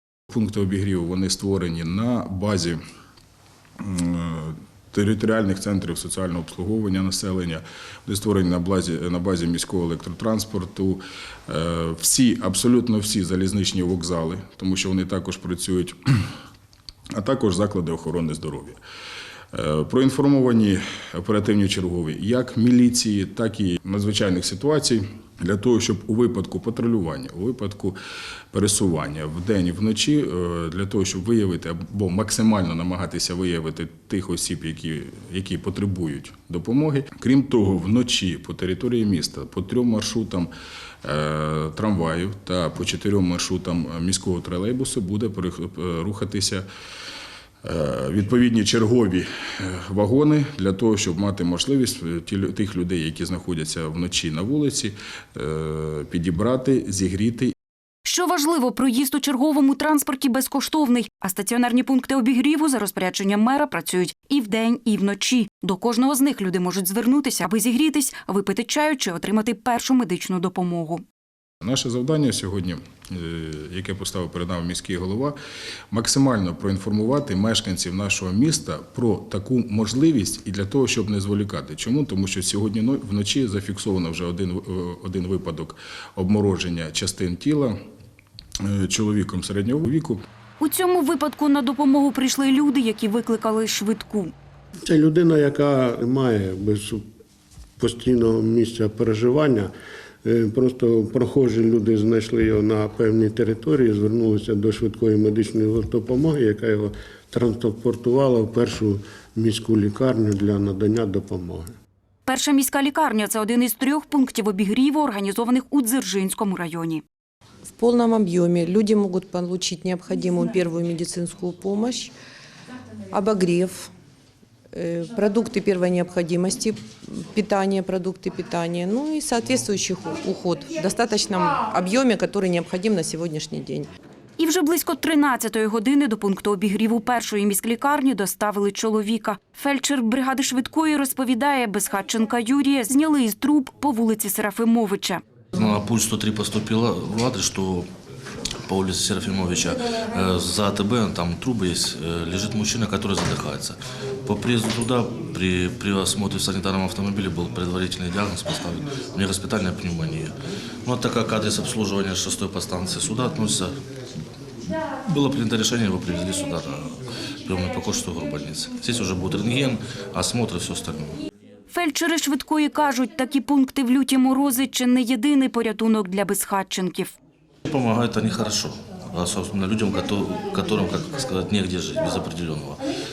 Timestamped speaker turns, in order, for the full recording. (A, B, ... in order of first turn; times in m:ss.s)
0:00.3-0:02.8 A
0:03.8-0:16.0 A
0:17.1-0:18.8 A
0:19.5-0:28.0 A
0:28.5-0:40.5 A
0:41.0-0:46.7 A
0:47.6-0:57.5 A
0:58.0-1:11.0 B
1:11.6-1:15.4 A
1:15.9-1:27.8 A
1:28.6-1:30.2 A
1:30.6-1:34.3 B
1:34.8-1:37.0 C
1:37.8-1:39.7 C
1:40.2-1:51.7 C
1:52.2-1:57.0 B
1:57.8-2:02.1 D
2:03.1-2:03.9 D
2:04.7-2:13.9 D
2:14.4-2:25.2 B
2:25.5-2:27.9 E
2:28.6-2:40.3 E
2:40.8-2:43.7 E
2:44.6-2:51.2 E
2:51.7-2:57.1 B
2:57.6-3:02.8 E